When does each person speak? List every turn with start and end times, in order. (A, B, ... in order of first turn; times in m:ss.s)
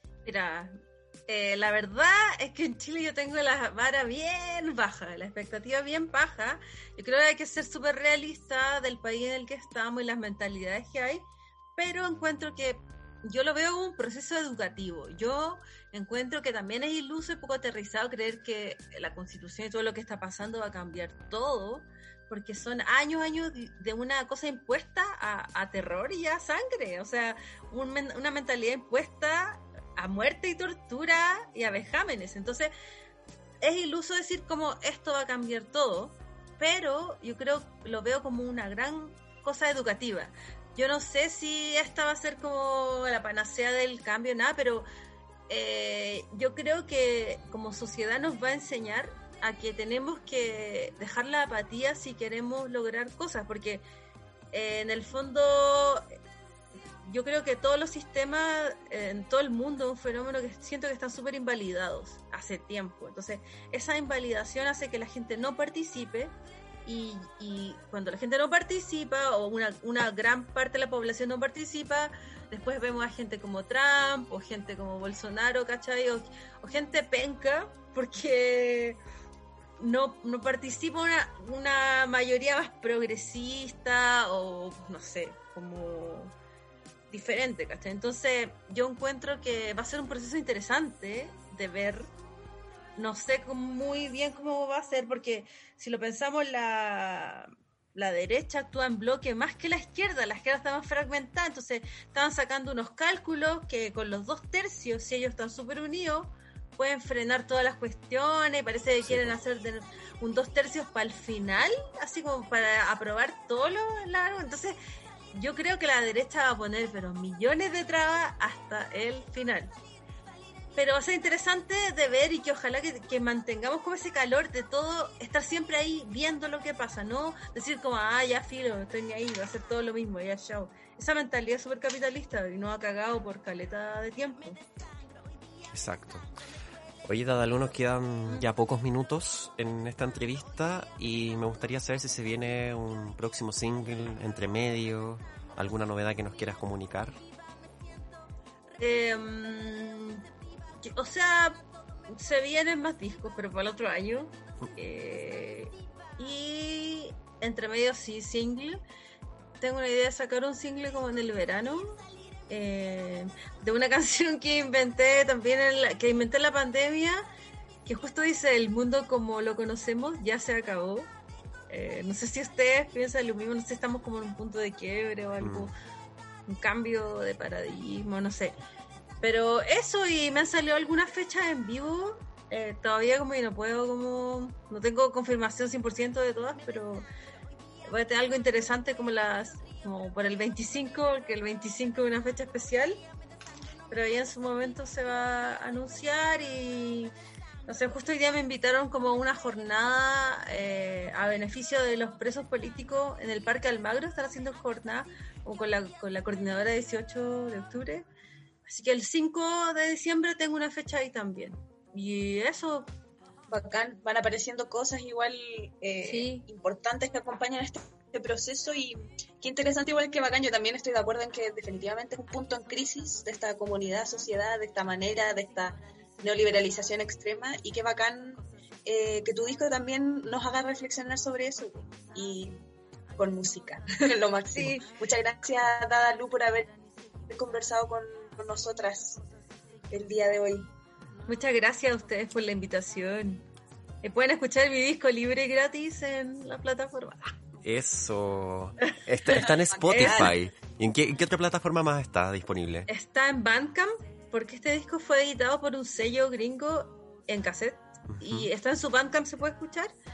0:00.2-0:00.8 A
0:01.3-0:11.2 A
0:11.8-0:32.7 A
0:33.6-0:44.9 A
0:45.5-0:53.8 A
0:54.5-0:56.1 A
0:57.0-1:06.3 A
1:06.8-1:19.0 A
1:19.8-1:26.3 A
1:27.1-1:32.1 A
1:33.0-1:54.8 A
1:49.0-1:49.3 B
1:55.3-1:59.7 A
2:00.7-2:14.6 A
2:15.7-2:16.2 B
2:17.0-2:27.2 B
2:28.8-2:30.2 A
2:30.8-2:38.8 A
2:39.6-2:47.2 A
2:47.8-2:51.1 A
2:51.7-2:55.7 A
2:55.4-2:55.7 B
2:56.5-2:58.6 A
2:59.2-3:07.1 A
3:07.8-3:13.0 A
3:13.9-3:17.1 A
3:17.6-3:28.1 A
3:28.7-3:32.9 A
3:33.5-3:52.6 C
3:36.0-3:36.4 A
3:53.2-3:56.7 C
3:54.5-3:54.9 A
3:57.3-3:59.2 C
3:59.9-4:00.7 C
4:01.3-4:03.4 A
4:04.0-4:07.3 A
4:07.6-4:12.9 B
4:09.3-4:10.4 C
4:09.9-4:10.3 A
4:12.9-4:19.9 A
4:18.1-4:18.5 B